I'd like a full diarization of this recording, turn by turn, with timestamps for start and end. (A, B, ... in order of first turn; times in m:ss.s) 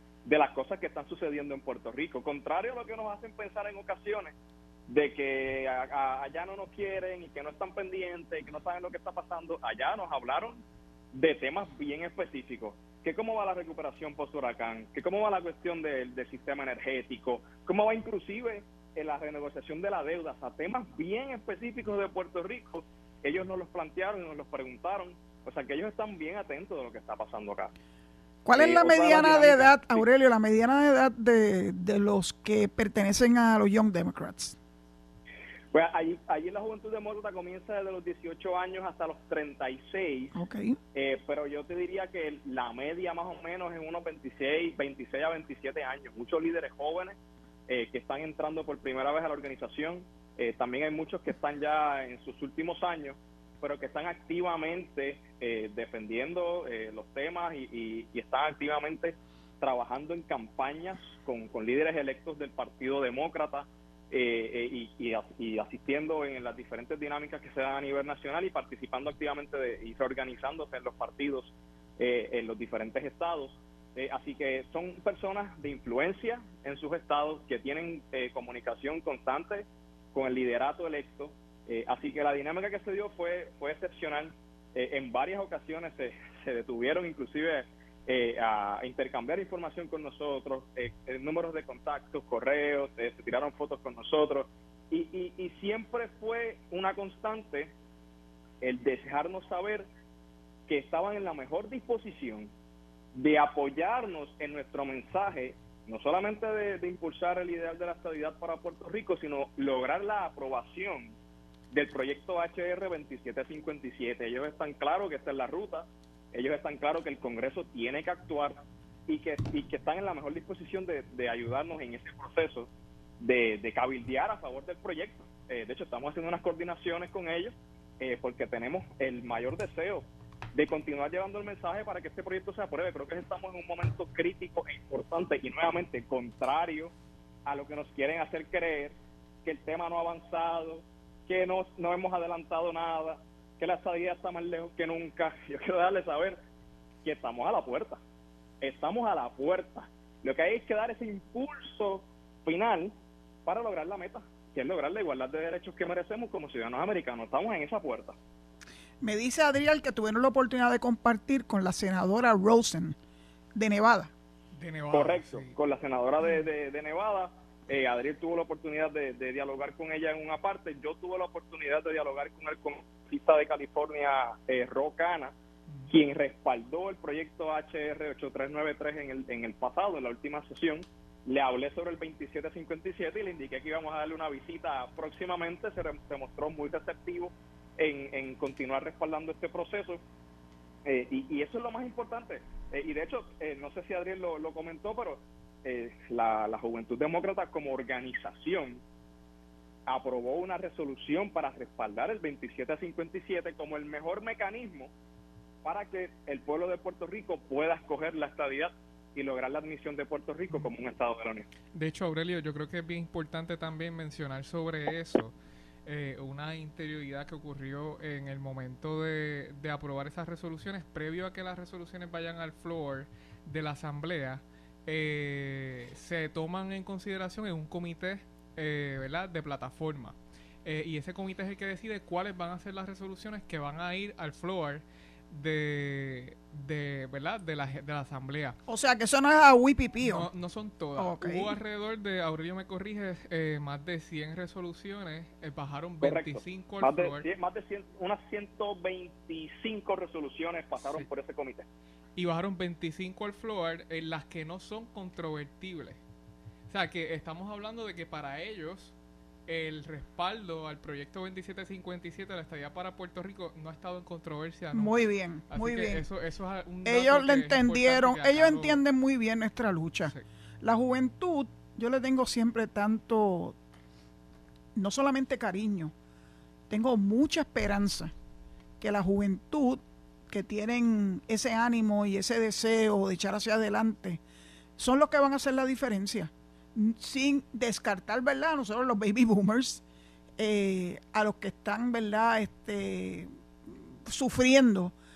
0:00.2-0:04.3 A
0:04.9-0:10.6 A
0:11.1-0:27.7 A
0:28.4-0:34.6 B
0:28.6-0:30.0 A
0:35.7-0:40.4 A
0:40.4-0:40.8 B
0:41.0-0:47.2 A
0:47.7-1:37.7 A
1:38.6-1:39.9 A
1:40.7-1:42.5 A
1:43.1-1:51.2 A
1:51.7-2:02.7 A
2:03.2-2:16.9 A
2:17.5-2:26.4 A
2:27.0-2:28.0 A
2:28.6-2:32.9 A
2:33.4-2:38.2 A
2:39.0-2:43.0 B
2:43.6-2:44.1 B
2:44.6-2:45.6 C
2:44.9-2:55.3 A
2:55.9-3:10.0 A
3:10.9-3:18.8 A
3:19.9-3:24.9 A
3:25.6-3:31.5 A
3:31.7-3:35.3 C
3:35.9-3:58.6 C
3:58.7-4:00.3 B
4:00.0-4:07.2 C
4:01.0-4:01.5 B
4:06.0-4:11.7 A
4:12.2-4:16.0 C
4:16.7-4:18.9 C
4:19.5-4:28.8 C
4:24.7-4:26.0 B
4:26.8-4:33.6 B
4:34.8-4:35.9 B
4:36.7-4:38.1 B
4:38.8-4:44.2 B
4:44.8-4:49.8 B
4:50.4-4:54.9 B